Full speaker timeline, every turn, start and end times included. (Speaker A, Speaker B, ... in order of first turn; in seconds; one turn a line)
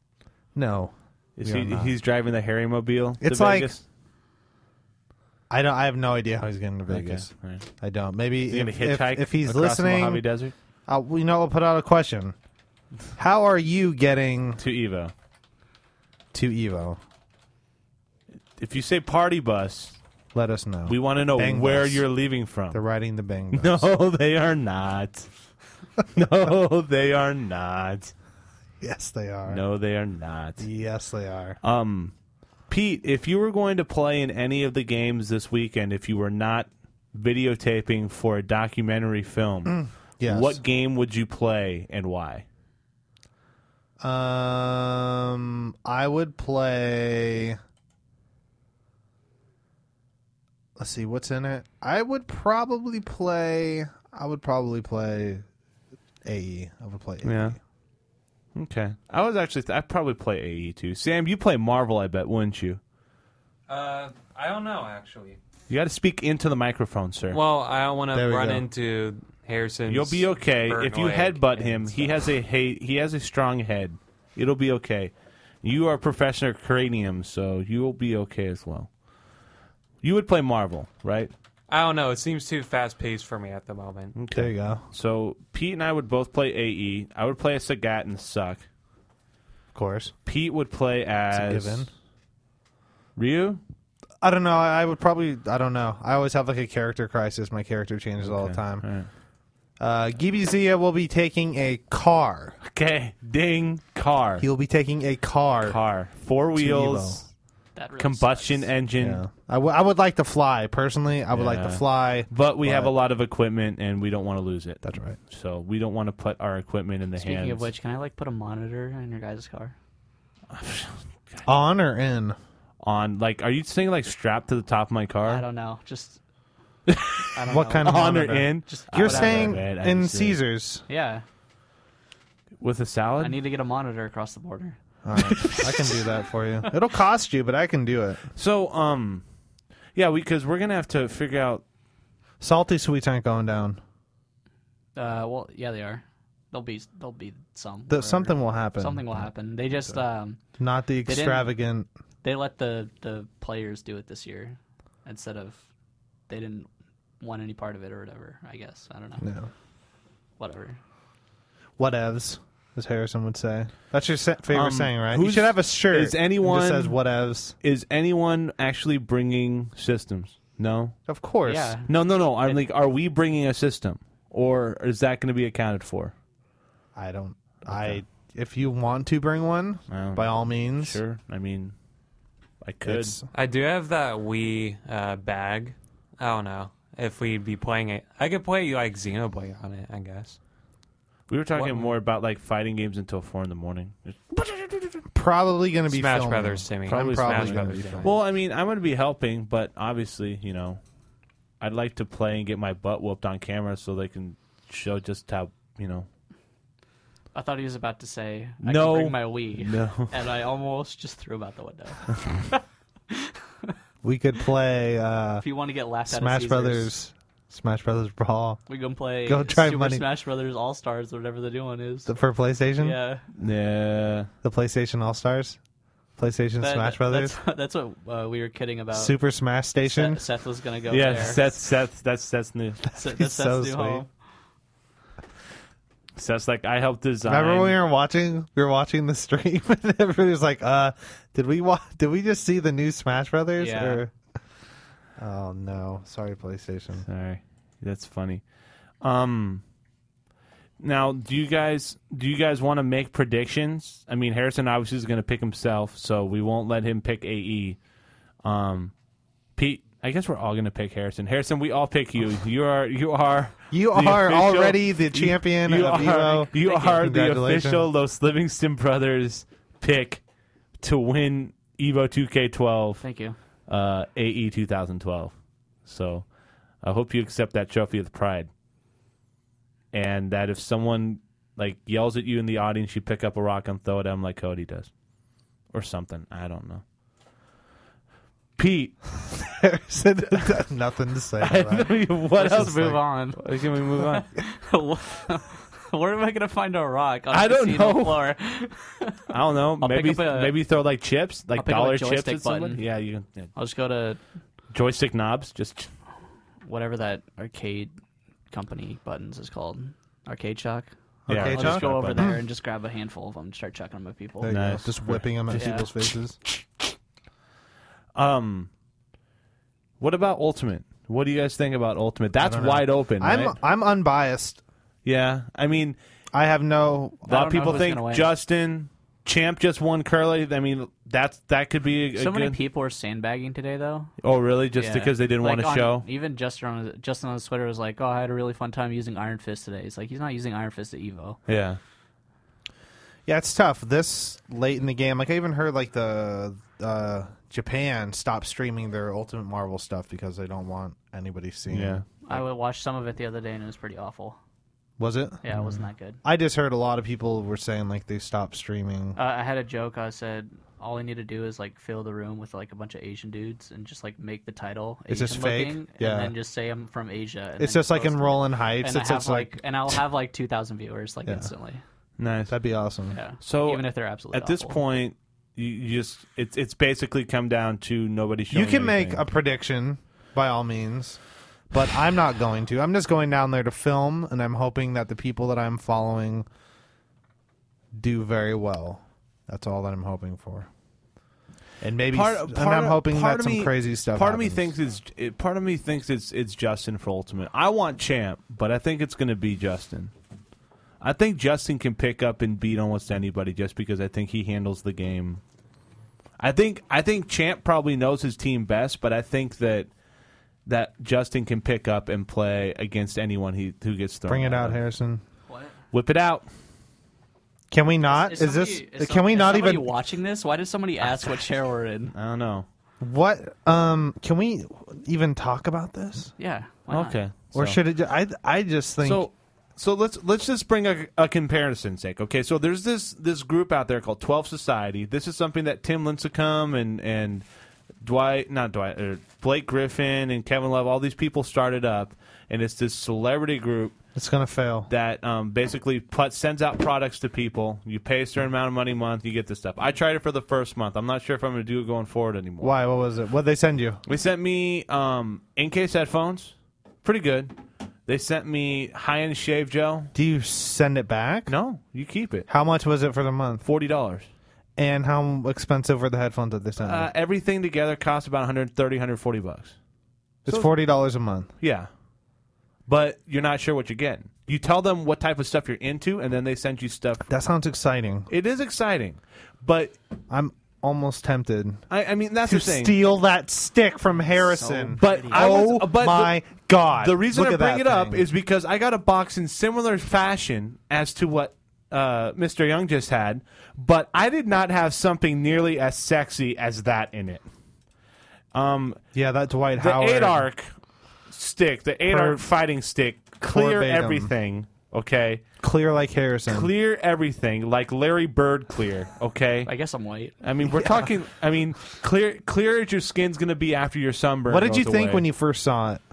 Speaker A: 0.5-1.9
Speaker B: 1.4-3.8
Speaker A: 3.2-3.7
Speaker A: 5.5-7.3
Speaker B: 6.9-7.7
Speaker A: 7.8-10.2
Speaker B: 8.5-10.5
Speaker A: 10.9-12.3
Speaker A: 13.2-14.6
Speaker B: 14.6-15.1
Speaker A: 16.3-17.0
Speaker B: 18.6-20.0
Speaker A: 20.3-22.0
Speaker B: 20.9-22.8
Speaker A: 22.7-23.9
Speaker B: 23.5-25.3
Speaker B: 26.1-28.1
Speaker A: 28.8-29.6
Speaker B: 29.5-30.6
Speaker A: 30.6-31.6
Speaker B: 31.6-32.1
Speaker B: 32.7-42.4
Speaker A: 39.6-40.6
Speaker A: 44.0-47.6
Speaker A: 50.8-55.4
Speaker A: 56.2-57.6
Speaker B: 57.2-57.6
Speaker B: 58.5-62.8
Speaker C: 63.7-65.4
Speaker B: 65.7-67.4
Speaker C: 67.3-72.2
Speaker A: 68.1-68.7
Speaker B: 69.9-78.9
Speaker B: 80.0-81.3
Speaker C: 81.7-84.1
Speaker B: 84.2-88.6
Speaker A: 84.3-84.8
Speaker A: 89.7-90.1
Speaker B: 90.2-91.9
Speaker A: 91.3-91.9
Speaker B: 93.2-93.6
Speaker A: 94.2-98.8
Speaker B: 98.2-99.1
Speaker A: 99.8-102.6
Speaker B: 102.6-104.5
Speaker A: 104.4-105.8
Speaker B: 105.6-107.2
Speaker A: 106.5-107.2
Speaker D: 107.8-108.7
Speaker B: 108.0-109.2
Speaker A: 109.0-112.9
Speaker B: 111.3-117.7
Speaker A: 114.8-115.2
Speaker D: 117.2-119.7
Speaker B: 120.5-121.4
Speaker A: 121.4-122.4
Speaker B: 122.8-125.4
Speaker D: 125.2-126.2
Speaker B: 126.9-130.4
Speaker D: 127.3-129.6
Speaker A: 127.5-130.8
Speaker D: 130.9-131.2
Speaker B: 132.6-133.4
Speaker D: 133.2-135.9
Speaker A: 135.0-138.2
Speaker B: 138.3-139.2
Speaker B: 139.9-141.6
Speaker A: 142.4-143.8
Speaker D: 144.9-150.4
Speaker A: 147.9-149.3
Speaker A: 150.6-151.9
Speaker D: 151.0-151.5
Speaker D: 152.2-155.6
Speaker D: 156.3-156.7
Speaker D: 157.2-159.2
Speaker A: 159.2-159.5
Speaker D: 160.4-160.8
Speaker A: 161.8-167.5
Speaker B: 164.5-166.9
Speaker B: 167.6-170.9
Speaker A: 171.1-171.8
Speaker D: 171.4-171.9
Speaker B: 171.9-176.1
Speaker A: 176.9-181.0
Speaker B: 177.7-178.0
Speaker B: 179.9-181.7
Speaker B: 182.6-183.2
Speaker A: 182.8-183.2
Speaker C: 183.3-190.4
Speaker B: 191.3-195.0
Speaker A: 195.1-198.1
Speaker C: 195.9-198.1
Speaker B: 196.9-200.8
Speaker B: 201.6-206.1
Speaker D: 207.3-213.7
Speaker B: 208.6-210.1
Speaker A: 214.0-215.4
Speaker D: 215.4-216.9
Speaker A: 216.1-218.6
Speaker D: 218.7-222.1
Speaker A: 219.2-220.0
Speaker A: 222.1-223.0
Speaker D: 222.8-223.2
Speaker B: 223.4-224.3
Speaker A: 224.4-225.6
Speaker A: 226.2-227.3
Speaker D: 226.6-229.1
Speaker A: 228.9-230.2
Speaker D: 229.8-231.4
Speaker B: 230.9-232.8
Speaker A: 232.9-234.0
Speaker D: 232.9-234.1
Speaker B: 236.2-237.8
Speaker A: 237.2-244.1
Speaker D: 243.6-244.0
Speaker A: 245.2-247.1
Speaker B: 247.1-248.4
Speaker B: 249.0-249.6
Speaker B: 250.8-257.8
Speaker B: 258.4-258.9
Speaker B: 259.6-270.2
Speaker A: 263.7-267.9
Speaker D: 266.5-267.0
Speaker B: 270.8-273.0
Speaker D: 273.0-273.4
Speaker B: 273.7-275.3
Speaker B: 275.9-276.2
Speaker B: 276.8-278.5
Speaker B: 279.9-284.9
Speaker B: 285.7-286.8
Speaker B: 288.6-289.2
Speaker A: 289.4-292.9
Speaker B: 291.4-294.3
Speaker D: 292.3-293.4
Speaker D: 293.9-300.6
Speaker B: 297.3-298.2
Speaker B: 299.3-303.5
Speaker D: 301.6-302.8
Speaker D: 303.6-304.2
Speaker B: 304.7-305.9
Speaker D: 306.6-307.9
Speaker D: 308.5-314.5
Speaker A: 311.3-312.4
Speaker B: 311.3-312.3
Speaker A: 314.4-316.4
Speaker B: 314.4-315.8
Speaker D: 315.5-315.9
Speaker B: 318.1-318.7
Speaker B: 320.0-323.5
Speaker A: 322.4-324.6
Speaker B: 325.0-326.0
Speaker A: 326.3-327.9
Speaker D: 327.3-328.3
Speaker B: 327.3-332.6
Speaker D: 332.1-334.1
Speaker B: 334.2-336.1
Speaker D: 334.8-341.4
Speaker B: 341.5-341.8
Speaker A: 343.2-352.4
Speaker B: 351.7-352.0
Speaker D: 352.2-354.4
Speaker A: 355.0-359.2
Speaker D: 355.4-356.2
Speaker D: 359.1-371.8
Speaker A: 365.1-366.3
Speaker A: 367.6-370.0
Speaker A: 371.2-371.5
Speaker B: 372.2-372.6
Speaker A: 372.5-373.2
Speaker D: 373.1-374.8
Speaker B: 373.4-379.2
Speaker A: 378.5-381.2
Speaker A: 381.7-386.5
Speaker A: 387.9-390.7
Speaker A: 391.8-394.7
Speaker B: 392.1-400.1
Speaker B: 401.0-405.4
Speaker B: 406.4-409.9
Speaker B: 410.6-414.8
Speaker A: 414.3-415.2
Speaker B: 415.9-416.4
Speaker A: 417.7-419.9
Speaker D: 418.1-422.1
Speaker B: 422.1-422.6
Speaker A: 423.0-426.3
Speaker D: 426.4-427.2
Speaker B: 426.9-427.8
Speaker A: 427.5-429.2
Speaker B: 429.0-437.4
Speaker B: 438.0-443.9
Speaker A: 444.1-444.9
Speaker B: 444.9-452.7
Speaker A: 452.6-454.0
Speaker B: 454.1-457.5
Speaker B: 458.1-460.1
Speaker A: 460.1-461.5
Speaker B: 461.5-462.5
Speaker A: 462.5-463.6
Speaker B: 463.6-464.3
Speaker A: 464.8-467.1
Speaker B: 466.8-469.8
Speaker A: 470.4-471.5
Speaker B: 471.6-471.9
Speaker B: 472.9-477.3
Speaker A: 477.3-478.3
Speaker B: 478.3-479.9
Speaker A: 480.3-481.8
Speaker B: 481.9-483.0
Speaker A: 482.4-488.2
Speaker D: 484.3-485.5
Speaker B: 485.0-497.4
Speaker B: 498.5-499.0
Speaker A: 499.1-500.4
Speaker B: 499.8-500.7
Speaker B: 501.3-505.4
Speaker A: 502.1-502.4
Speaker A: 503.5-504.3
Speaker A: 505.6-506.7
Speaker B: 506.5-509.7
Speaker D: 509.6-510.3
Speaker B: 510.4-515.2
Speaker A: 510.6-511.1
Speaker A: 514.5-516.0